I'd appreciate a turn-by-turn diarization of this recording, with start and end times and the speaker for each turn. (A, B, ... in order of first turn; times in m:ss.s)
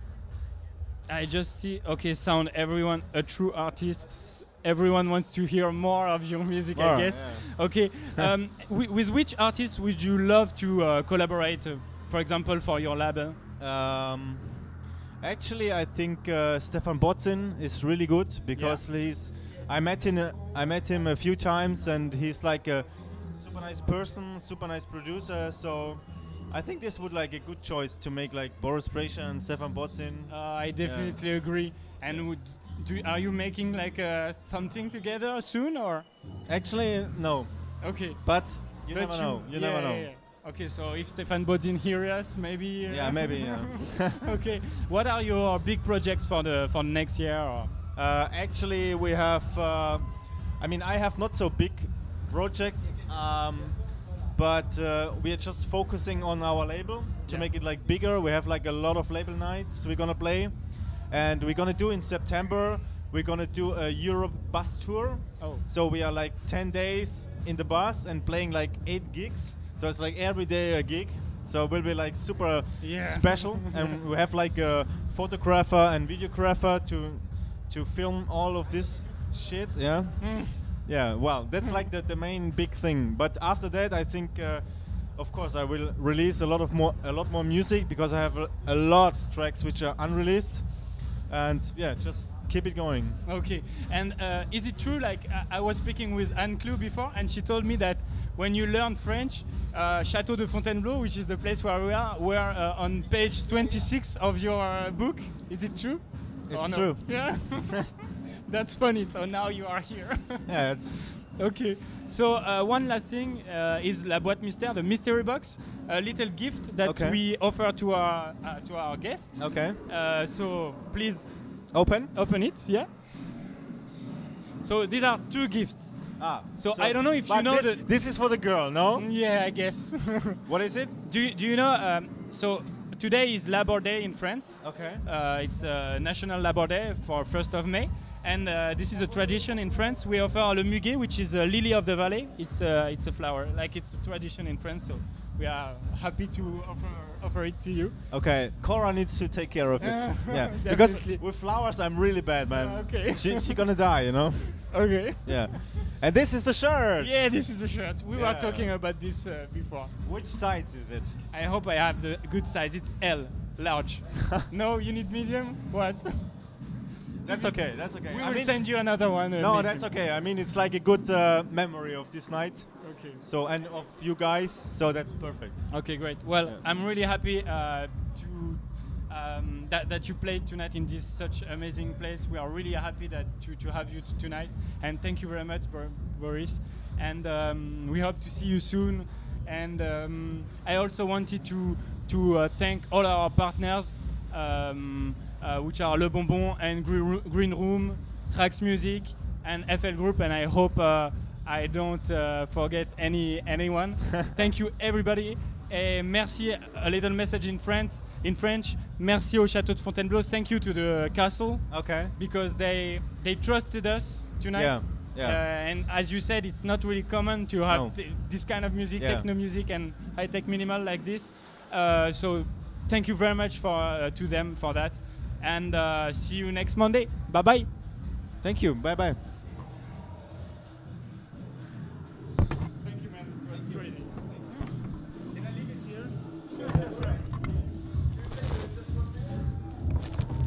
0:01.1-0:13.4 A
0:06.7-0:08.3 B
0:13.6-0:32.3 B
0:18.5-0:18.8 A
0:30.3-0:36.2 A
0:36.4-0:40.1 B
0:37.8-0:47.8 A
0:42.9-0:44.3 B
0:48.0-1:33.2 B
1:12.8-1:14.0 A
1:20.2-1:20.8 A
1:33.3-2:02.9 A
1:46.5-1:47.7 B
1:50.5-1:51.2 B
1:56.8-1:57.2 B
1:59.4-1:59.8 B
2:01.7-2:02.1 B
2:04.6-2:08.0 A
2:06.2-2:09.1 B
2:09.0-2:28.0 A
2:10.5-2:10.9 B
2:14.6-2:15.0 B
2:28.1-2:37.3 B
2:29.8-2:31.3 A
2:32.5-2:33.6 A
2:34.1-2:35.9 A
2:37.0-2:40.0 A
2:38.2-2:38.7 B
2:40.0-2:41.2 B
2:41.3-2:49.9 A
2:47.2-2:56.6 B
2:52.8-2:53.2 A
2:55.7-3:47.7 A
3:31.7-3:32.1 B
3:34.6-3:35.4 B
3:37.7-3:38.2 B
3:39.0-3:39.3 B
3:48.4-3:49.3 B
3:52.8-3:54.6 A
3:56.0-3:57.2 A